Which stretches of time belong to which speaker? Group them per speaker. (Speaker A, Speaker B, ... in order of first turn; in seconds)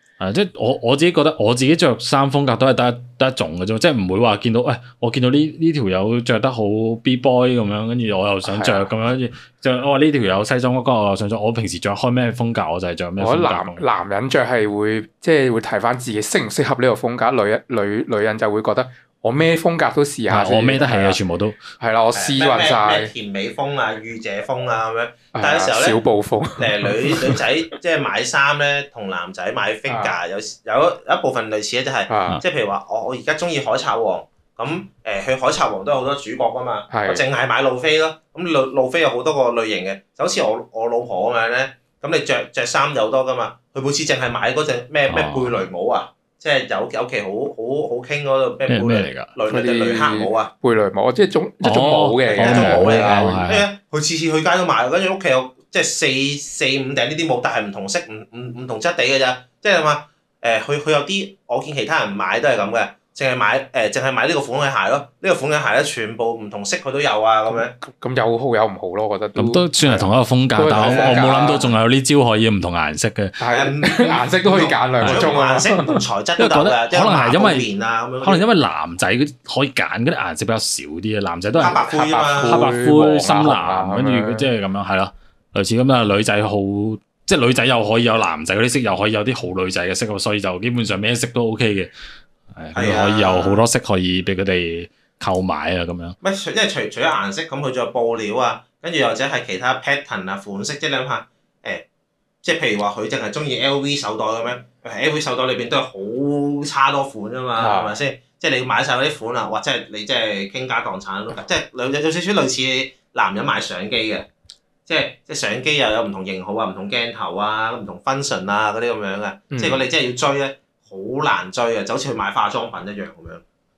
Speaker A: 0.2-13.8, 20.3-21.6, 45.1-45.5, 48.7-49.3, 51.6-53.7, 69.3-73.3, 75.0-75.3, 76.4-77.7, 78.2-91.9, 92.5-96.2
Speaker B: 8.4-8.9, 13.2-21.2, 21.8-23.1, 25.3-27.4, 29.9-30.1, 32.1-32.4, 36.9-37.2, 49.5-53.4, 67.5-71.7, 73.4-76.0, 81.9-84.5, 107.5-108.0, 119.5-119.9
Speaker C: 22.1-26.0, 26.6-50.5, 52.3-67.7, 70.8-71.7, 73.5-78.4, 81.6-82.7, 92.7-93.6, 96.2-101.8, 102.4-114.3, 114.9-123.4